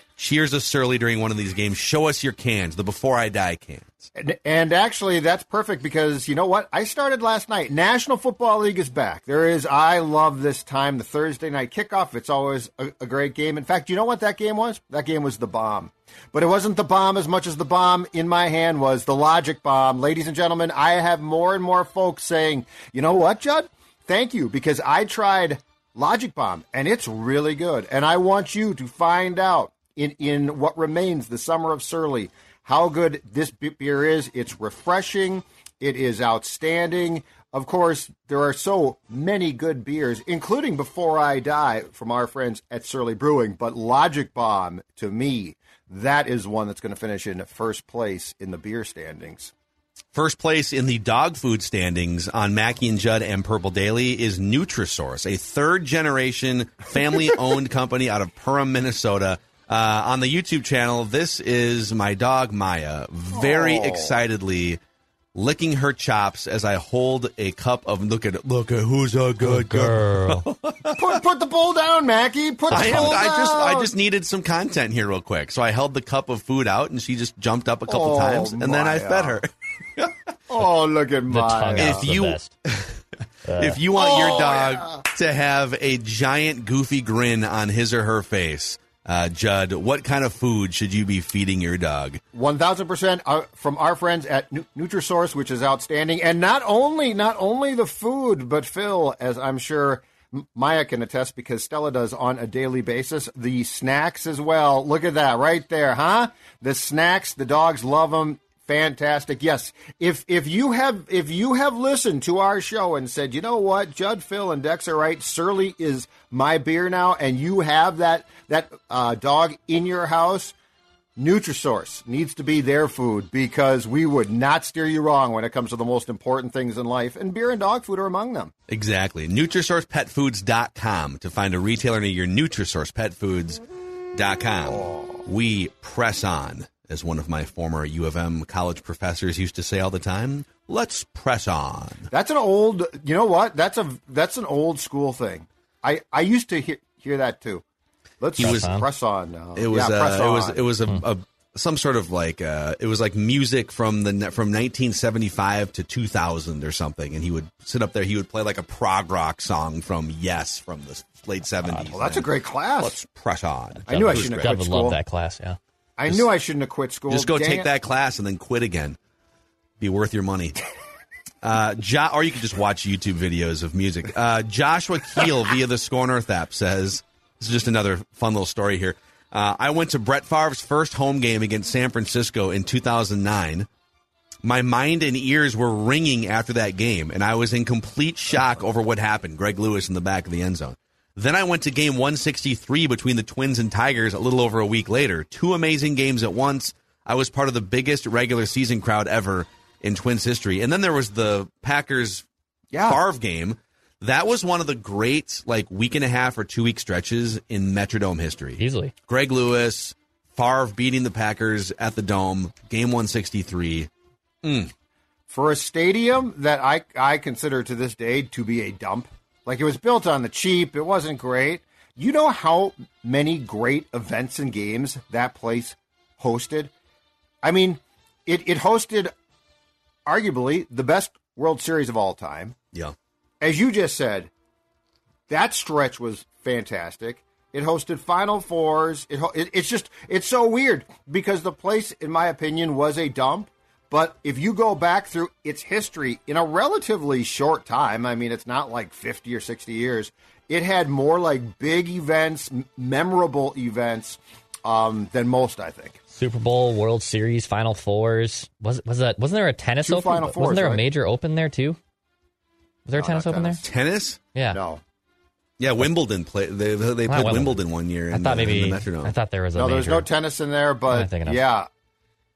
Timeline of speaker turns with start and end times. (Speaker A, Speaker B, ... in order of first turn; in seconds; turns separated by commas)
Speaker A: 0.2-4.1, Speaker B: 4.2-49.5, Speaker A: 50.1-64.8, Speaker B: 63.3-64.1, Speaker A: 65.3-71.1, Speaker C: 69.4-70.5, Speaker B: 71.0-73.9, Speaker C: 72.7-73.2, Speaker A: 72.7-80.1, Speaker B: 77.9-79.4, Speaker B: 80.5-82.0, Speaker C: 81.3-82.5, Speaker A: 81.8-83.0, Speaker C: 83.4-83.8, Speaker A: 83.6-92.2, Speaker B: 83.9-85.0, Speaker B: 92.3-120.5, Speaker B: 121.2-128.5, Speaker A: 128.7-133.6, Speaker A: 134.1-142.1, Speaker B: 134.6-135.2, Speaker B: 142.1-147.6, Speaker B: 148.2-150.6, Speaker C: 148.4-148.9, Speaker A: 148.4-148.7, Speaker A: 149.6-164.5, Speaker B: 161.7-162.9, Speaker B: 163.9-165.0, Speaker C: 164.2-165.6, Speaker B: 166.0-167.7, Speaker A: 167.1-169.0, Speaker A: 169.8-170.6, Speaker A: 171.4-183.7, Speaker A: 184.4-202.2, Speaker B: 202.7-203.0, Speaker A: 202.8-213.9, Speaker C: 208.6-208.9, Speaker A: 214.4-214.7, Speaker B: 215.3-226.7, Speaker B: 227.4-229.1, Speaker B: 230.1-232.6, Speaker B: 233.4-234.3, Speaker B: 235.3-256.0, Speaker C: 256.1-261.8, Speaker B: 259.8-260.8, Speaker C: 262.9-263.6, Speaker B: 262.9-263.6, Speaker A: 263.6-264.2, Speaker B: 264.5-264.8, Speaker A: 265.6-269.1, Speaker C: 267.1-267.6, Speaker C: 268.1-270.1, Speaker B: 269.5-271.7, Speaker C: 270.9-271.4